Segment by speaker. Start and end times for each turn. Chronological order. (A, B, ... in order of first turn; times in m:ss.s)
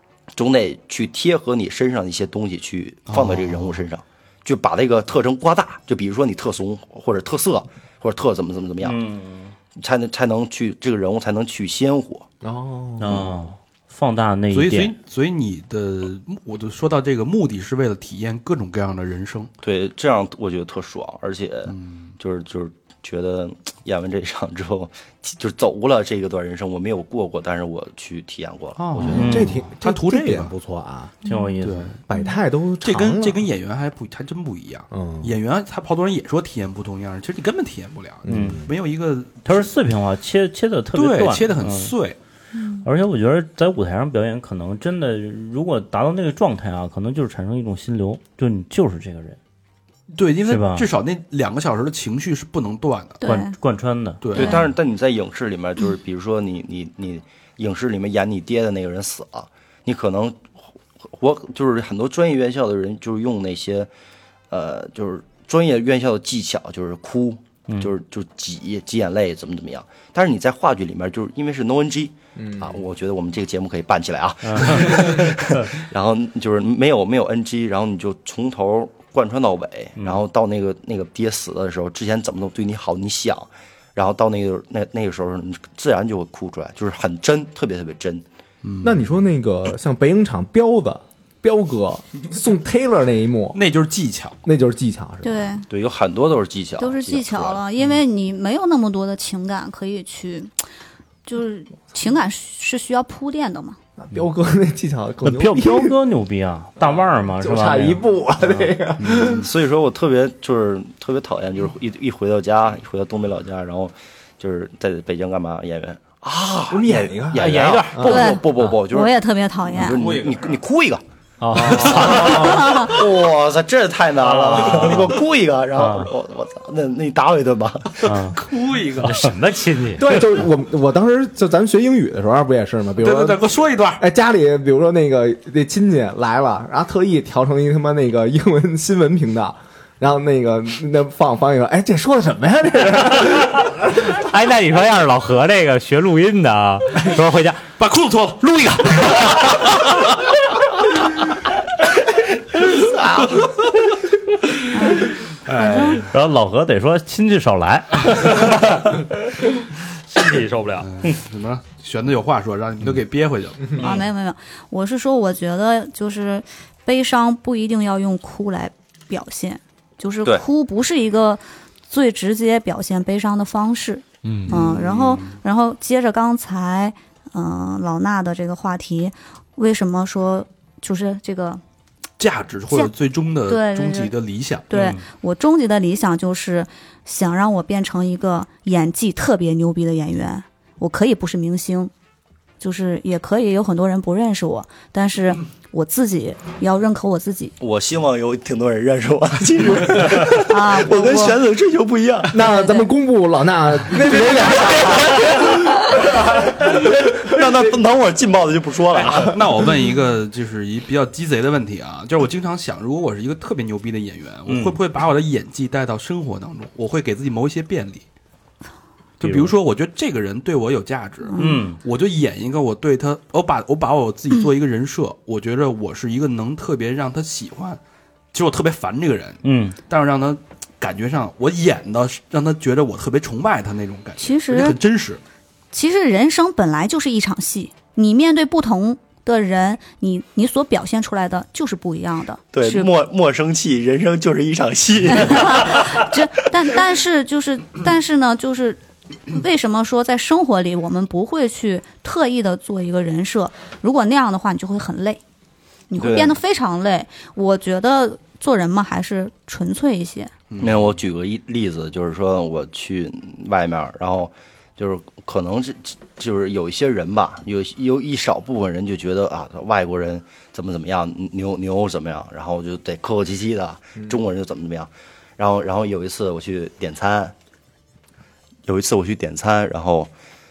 0:00.3-0:09.0 A
0:03.1-0:03.8 B
0:08.8-0:09.5 C
0:09.8-0:12.2 A
0:12.4-0:13.3 D
0:13.0-0:14.9 C
0:14.5-0:19.5 B
0:19.6-0:29.4 A
0:21.7-0:22.1 B
0:28.8-0:30.5 B
0:29.1-0:31.1 D
0:29.1-0:29.6 C
0:31.2-0:31.9 C
0:31.2-0:31.5 E
0:31.6-0:32.0 B
0:32.1-0:33.4 D
0:32.8-0:39.5 B
0:34.9-0:35.3 D
0:38.2-0:38.7 D
0:38.3-0:38.7 C
0:39.4-0:41.9 C
0:40.9-0:42.2 B
0:42.5-0:42.8 E
0:42.8-0:49.4 C
0:50.1-0:53.2 B
0:50.5-0:50.9 C
0:53.2-0:53.5 E
0:53.2-0:54.5 C
0:54.2-0:54.6 B
0:54.3-1:00.4 A
0:54.4-0:54.6 E
1:01.0-1:03.9 A
1:04.5-1:28.2 A
1:12.4-1:12.7 D
1:14.4-1:15.4 C
1:28.6-1:29.0 B
1:28.8-1:33.6 D
1:33.5-1:34.4 B
1:34.4-1:35.5 D
1:35.2-1:35.6 E
1:35.7-1:37.6 A
1:36.8-1:40.5 E
1:41.2-1:43.8 E
1:44.0-1:46.0 D
1:45.2-1:48.7 C
1:46.8-1:49.4 D
1:49.0-1:49.5 B
1:49.1-2:01.0 A
1:56.7-1:58.3 D
1:57.3-1:58.3 F
1:58.0-2:00.0 E
1:59.9-2:00.4 B
2:01.5-2:02.6 D
2:01.5-2:02.5 C
2:01.5-2:08.4 A
2:02.4-2:02.9 E
2:04.2-2:05.1 C
2:05.8-2:06.1 C
2:08.0-2:08.4 C
2:08.4-2:09.3 B
2:09.0-2:10.4 C
2:09.6-2:09.9 F
2:10.0-2:13.4 D
2:13.0-2:14.0 B
2:14.0-2:23.9 D
2:24.1-2:27.7 F
2:27.8-2:29.8 B
2:33.0-2:33.5 B
2:34.7-2:36.0 E
2:35.4-2:36.1 B
2:35.8-2:39.5 C
2:40.1-2:41.2 C
2:40.8-2:44.1 B
2:43.8-3:01.6 E
2:54.2-2:54.5 F
2:54.4-2:55.4 B
3:02.2-3:04.6 B
3:03.5-3:04.1 E
3:04.7-3:11.9 E
3:04.7-3:05.0 C
3:12.6-3:17.5 E
3:17.6-3:22.4 A
3:20.4-3:21.4 E
3:22.3-3:25.6 D
3:22.4-3:22.9 E
3:24.0-3:25.2 A
3:26.3-3:29.4 A
3:29.0-3:38.0 B
3:34.5-3:34.8 C
3:39.2-3:47.8 B
3:39.2-3:39.5 C
3:41.3-3:41.6 E
3:41.4-3:41.8 C
3:48.3-3:55.2 B
3:49.4-3:49.8 C
3:54.2-3:54.8 E
3:55.7-4:02.9 E
4:02.5-4:06.1 A
4:05.1-4:15.2 E
4:15.9-4:20.3 E
4:16.0-4:16.4 A
4:20.5-4:21.0 B
4:20.6-4:37.3 A
4:38.6-4:40.1 A